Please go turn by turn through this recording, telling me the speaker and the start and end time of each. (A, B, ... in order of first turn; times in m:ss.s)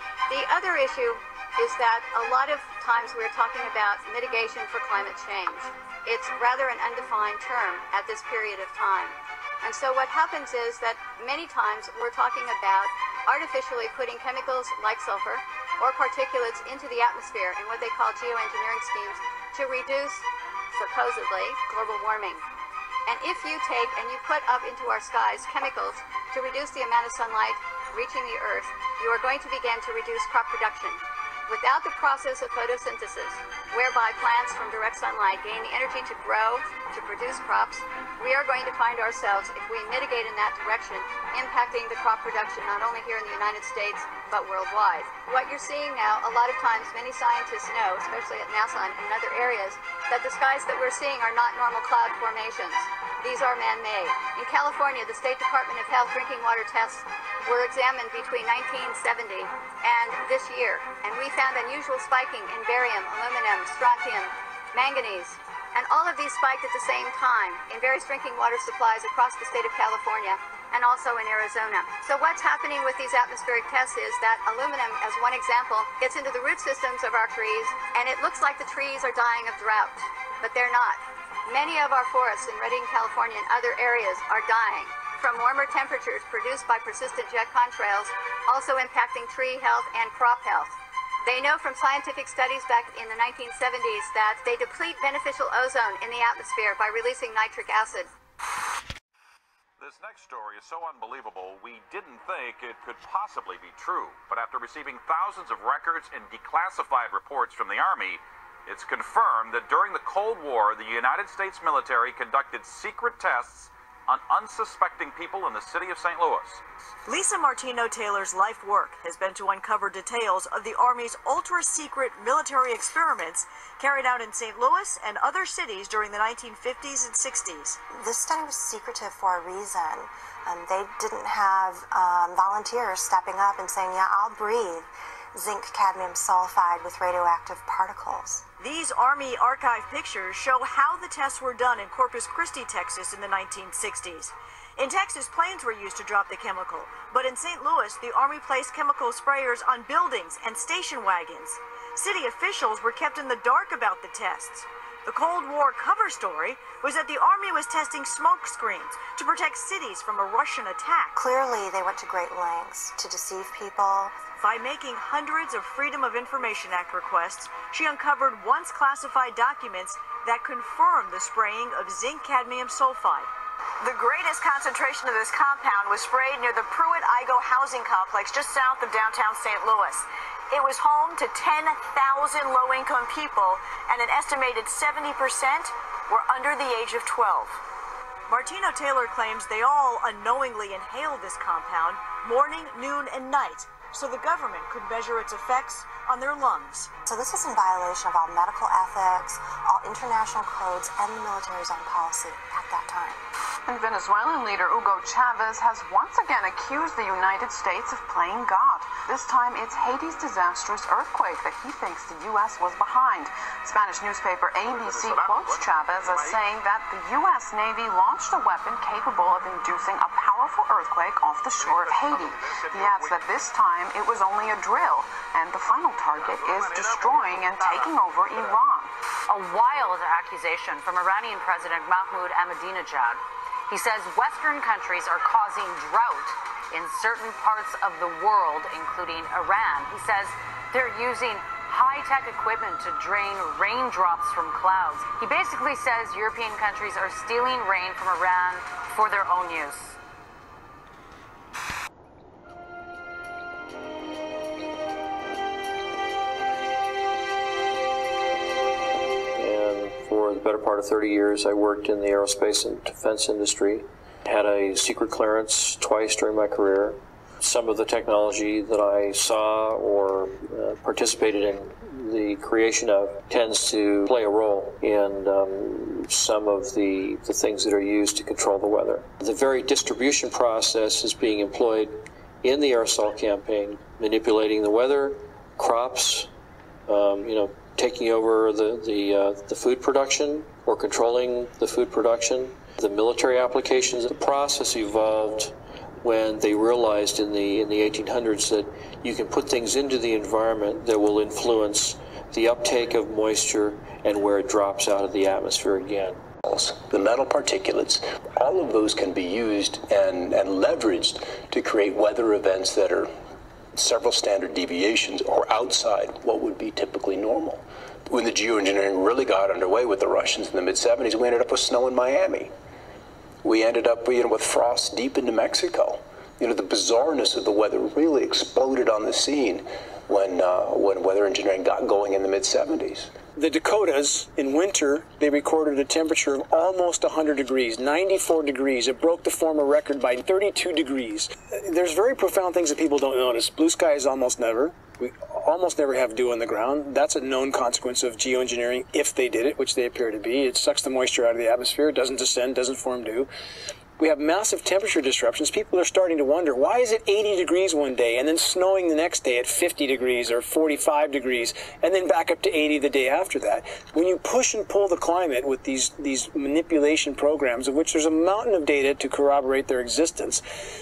0:00.3-0:22.4 A
0:23.1-1:30.7 A
1:31.2-1:38.1 A
1:39.8-1:56.6 B
1:57.1-2:07.8 C
2:07.9-2:18.5 D
2:18.6-2:41.2 C
2:41.2-2:44.1 D
2:44.4-2:53.3 C
2:53.8-3:07.6 C
3:08.3-3:16.9 C
3:17.0-3:23.2 D
3:23.7-3:48.9 E
3:34.7-3:36.4 B
3:41.6-3:43.2 B
3:46.2-3:48.5 B
3:49.3-4:10.0 F
4:19.4-4:46.3 G
4:46.9-5:06.2 G
5:06.4-5:13.1 H
5:13.8-5:22.5 H
5:23.4-5:33.1 H
5:33.4-5:53.3 I
5:54.0-6:10.4 I